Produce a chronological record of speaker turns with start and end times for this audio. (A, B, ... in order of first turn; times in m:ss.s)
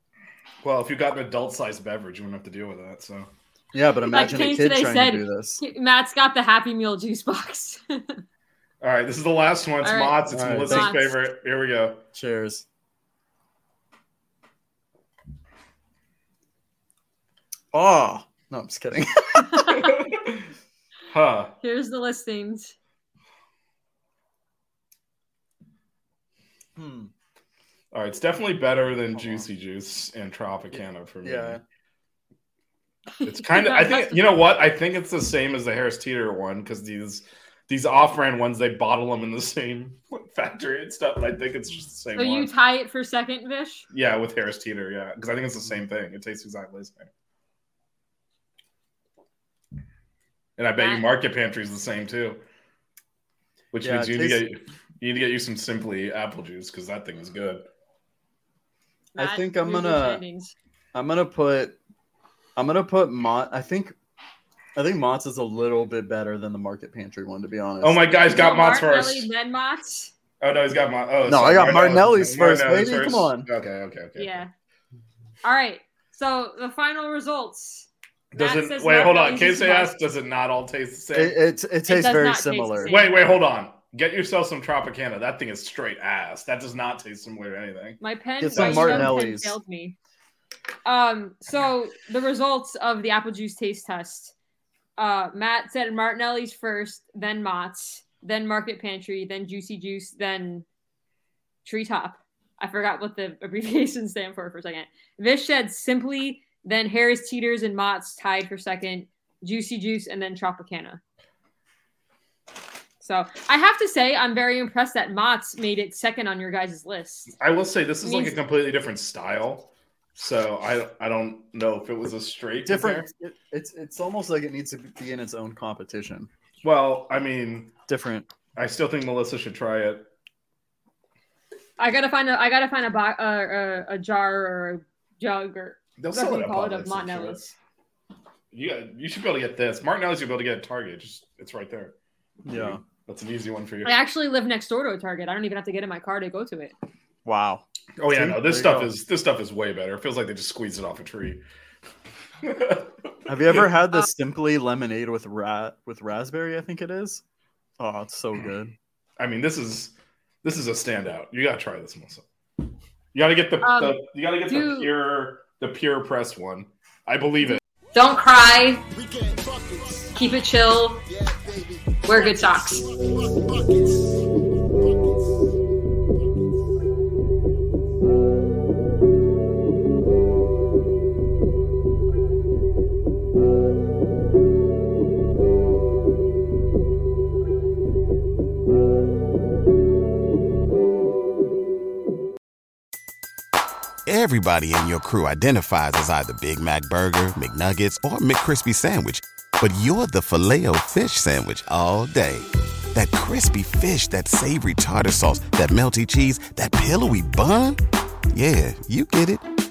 0:00.6-0:03.3 A
0:03.7-0:05.6 B
0:04.1-0:08.2 C
0:08.8-0:12.0 A
0:09.8-0:11.2 C
0:10.3-0:11.0 B
0:12.1-0:12.6 B
0:17.7-0:19.6 B
0:19.5-0:20.0 C
0:19.8-0:20.4 A
0:21.1-0:21.5 A
0:21.6-0:22.7 C
0:26.8-0:27.1 B
0:27.9-0:31.6 A
0:29.1-0:29.5 B
0:30.7-0:31.6 B
0:33.2-0:34.3 C
0:33.2-0:42.5 A
0:42.1-0:43.8 C
0:43.9-0:47.1 A
0:50.6-0:52.4 A
0:50.8-0:51.1 C
0:53.7-0:57.6 A
0:53.8-0:54.5 B
0:59.1-1:00.5 C
0:59.2-1:00.2 B
1:00.9-1:01.8 B
1:02.6-1:03.9 B
1:04.8-1:08.0 B
1:07.8-1:09.3 A
1:08.3-1:10.1 C
1:10.4-1:14.4 A
1:11.2-1:13.5 B
1:14.2-1:14.5 C
1:15.4-1:19.9 C
1:18.3-1:21.4 A
1:21.1-1:22.9 B
1:21.9-1:23.2 C
1:22.8-1:29.2 A
1:28.0-1:29.9 C
1:28.4-1:29.6 B
1:30.8-1:34.3 C
1:35.0-1:40.6 C
1:41.6-1:51.0 C
1:53.0-1:57.3 C
1:57.4-2:03.1 A
1:58.0-1:58.4 C
2:02.6-2:06.3 B
2:06.6-2:07.7 A
2:07.9-2:08.3 B
2:08.6-2:10.1 A
2:11.8-2:17.4 C
2:16.0-2:17.5 A
2:18.5-2:21.9 A
2:22.4-2:22.8 B
2:22.5-2:24.0 A
2:23.8-2:26.7 C
2:27.2-2:28.9 B
2:28.0-2:31.4 A
2:32.4-2:32.9 A
2:33.3-2:37.2 B
2:37.8-2:38.7 B
2:39.2-2:42.2 A
2:43.1-2:47.6 A
2:43.6-2:44.9 C
2:47.4-2:48.8 C
2:48.9-2:50.2 D
2:50.2-2:51.0 C
2:51.0-2:55.3 D
2:52.1-2:52.9 C
3:14.0-3:27.8 E
3:28.3-3:29.4 E